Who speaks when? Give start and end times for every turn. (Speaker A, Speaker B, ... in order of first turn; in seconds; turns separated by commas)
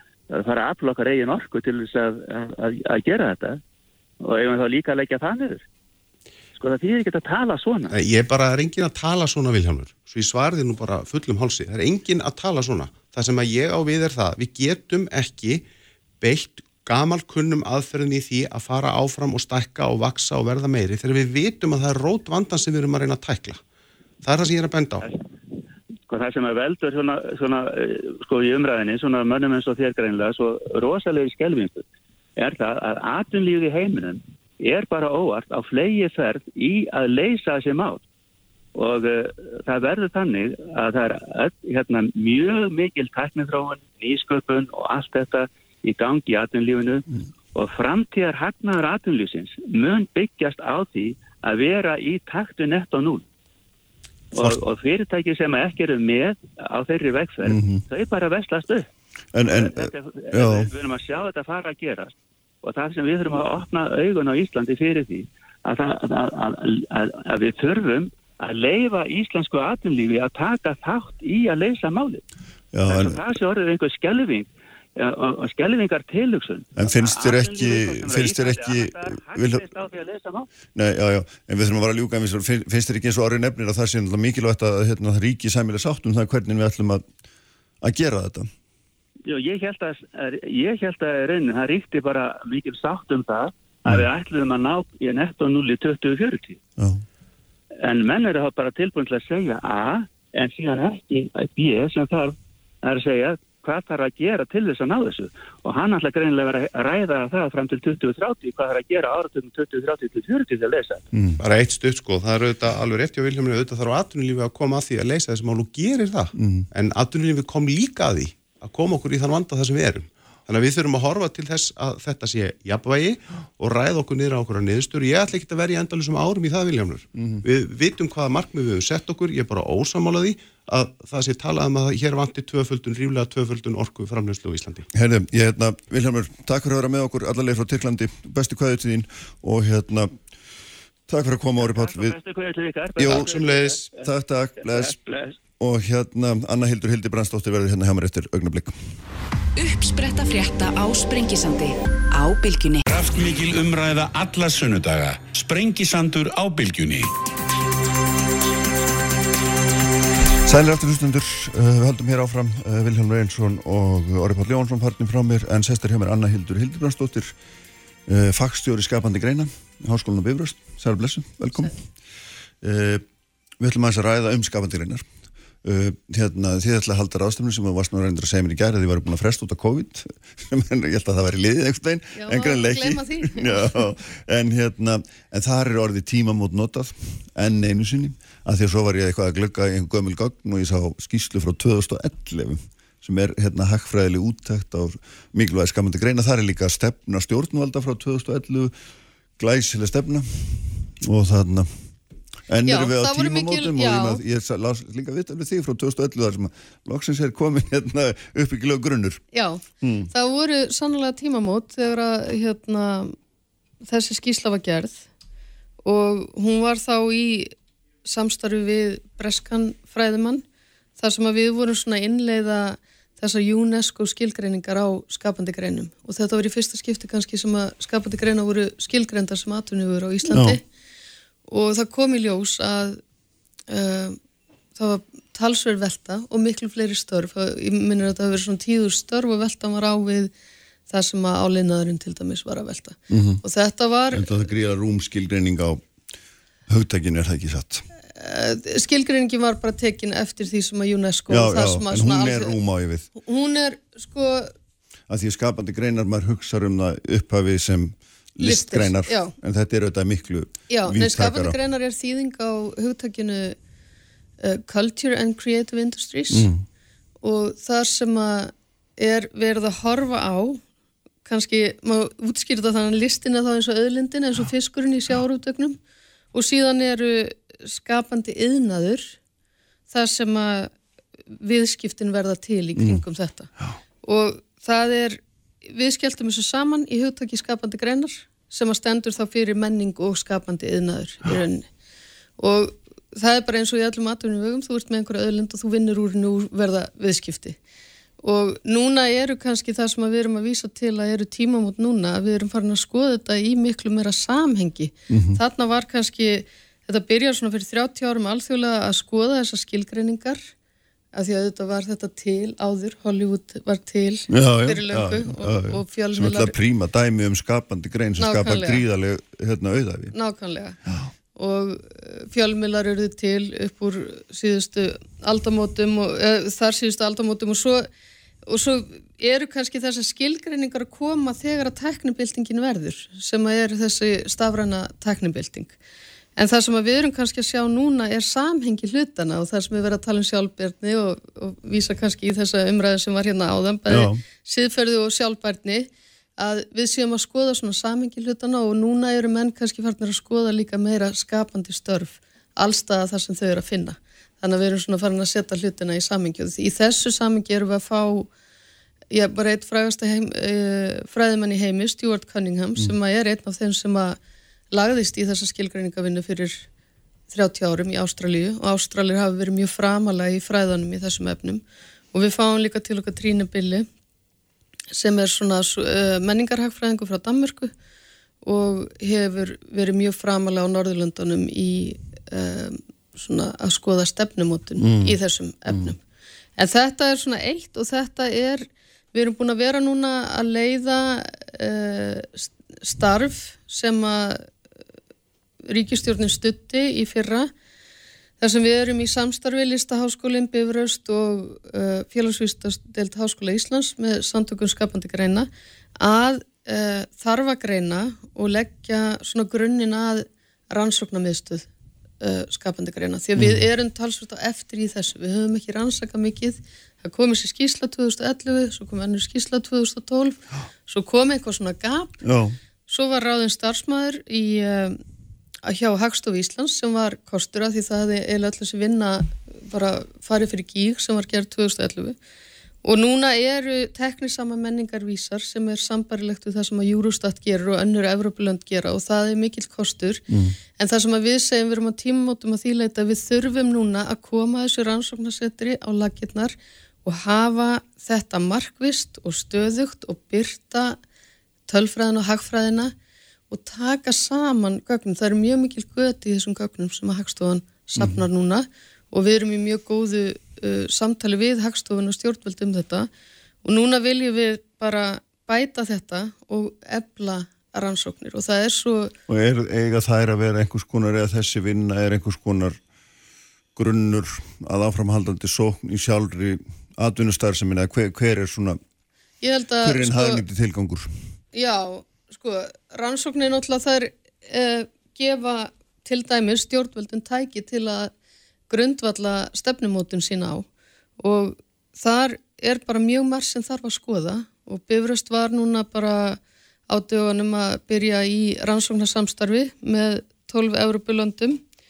Speaker A: 0.3-3.6, Speaker A: 4.2-5.6, Speaker A: 6.6-8.0, Speaker B: 7.9-15.6, Speaker B: 16.2-23.6, Speaker B: 24.2-25.1, Speaker A: 26.1-31.8, Speaker A: 32.4-38.0, Speaker A: 38.8-53.2, Speaker A: 54.3-58.9, Speaker C: 57.5-57.8, Speaker C: 59.3-60.7, Speaker A: 59.5-72.2, Speaker C: 72.7-73.2, Speaker A: 72.9-80.5, Speaker C: 76.8-79.7, Speaker C: 80.8-87.1, Speaker C: 87.8-88.5, Speaker A: 89.3-96.6, Speaker C: 96.8-97.0, Speaker A: 97.8-111.0, Speaker C: 111.1-111.4, Speaker B: 111.4-134.9, Speaker C: 116.4-116.7, Speaker C: 127.2-127.5, Speaker C: 134.9-140.1, Speaker C: 141.1-142.2, Speaker A: 141.6-143.9, Speaker C: 143.0-143.3, Speaker B: 143.1-143.9, Speaker C: 144.0-145.0, Speaker A: 144.6-145.4, Speaker C: 145.6-148.7, Speaker D: 149.6-152.8, Speaker E: 152.9-157.1, Speaker C: 160.5-167.3, Speaker C: 168.1-171.8, Speaker C: 172.6-173.0, Speaker C: 173.6-175.1, Speaker C: 175.6-198.7, Speaker F: 182.2-183.8, Speaker C: 199.4-201.7, Speaker C: 202.5-209.2, Speaker F: 202.7-204.2, Speaker F: 209.3-213.2, Speaker C: 209.8-210.1, Speaker F: 213.8-215.0, Speaker F: 215.8-217.5, Speaker F: 218.1-220.4, Speaker F: 221.0-230.6, Speaker C: 230.3-230.6, Speaker F: 231.5-233.0, Speaker F: 233.7-234.2, Speaker F: 234.8-240.3, Speaker F: 240.9-244.4, Speaker C: 243.1-243.4, Speaker C: 244.1-245.8, Speaker C: 246.7-247.8, Speaker F: 248.1-252.6, Speaker C: 251.3-253.1, Speaker F: 253.2-254.5, Speaker C: 255.1-261.6, Speaker F: 258.4-259.3, Speaker F: 260.7-263.6, Speaker F: 264.4-266.5, Speaker C: 266.3-266.6, Speaker F: 267.2-270.6, Speaker F: 271.2-275.8, Speaker F: 276.3-279.1, Speaker F: 279.9-280.7, Speaker F: 281.3-283.5, Speaker F: 284.0-291.7, Speaker F: 292.4-297.6, Speaker F: 298.2-310.4, Speaker C: 305.1-305.4, Speaker F: 311.1-316.6, Speaker C: 314.3-320.1, Speaker F: 318.2-318.8, Speaker F: 320.1-320.8, Speaker F: 321.4-327.9, Speaker F: 328.5-335.8, Speaker F: 336.4-358.3, Speaker C: 343.9-344.2, Speaker F: 359.1-364.2, Speaker F: 364.7-366.6, Speaker F: 367.3-373.9, Speaker F: 374.9-377.7, Speaker F: 378.4-386.0, Speaker C: 384.8-385.1, Speaker F: 386.6-394.5, Speaker F: 395.7-397.5, Speaker F: 398.4-405.5, Speaker F: 406.0-411.7, Speaker F: 412.2-422.2, Speaker C: 413.4-413.7, Speaker C: 422.2-422.6, Speaker F: 422.9-425.0, Speaker F: 425.6-432.2, Speaker F: 432.8-440.2, Speaker C: 440.3-440.6, Speaker F: 440.8-451.0, Speaker F: 451.7-452.9, Speaker F: 453.5-463.1, Speaker C: 458.0-458.3, Speaker F: 463.6-469.1, Speaker C: 469.3-472.8, Speaker C: 473.8-478.8, Speaker F: 479.4-480.4, Speaker C: 479.8-481.1, Speaker F: 481.5-488.1, Speaker F: 488.7-490.7, Speaker F: 491.2-501.6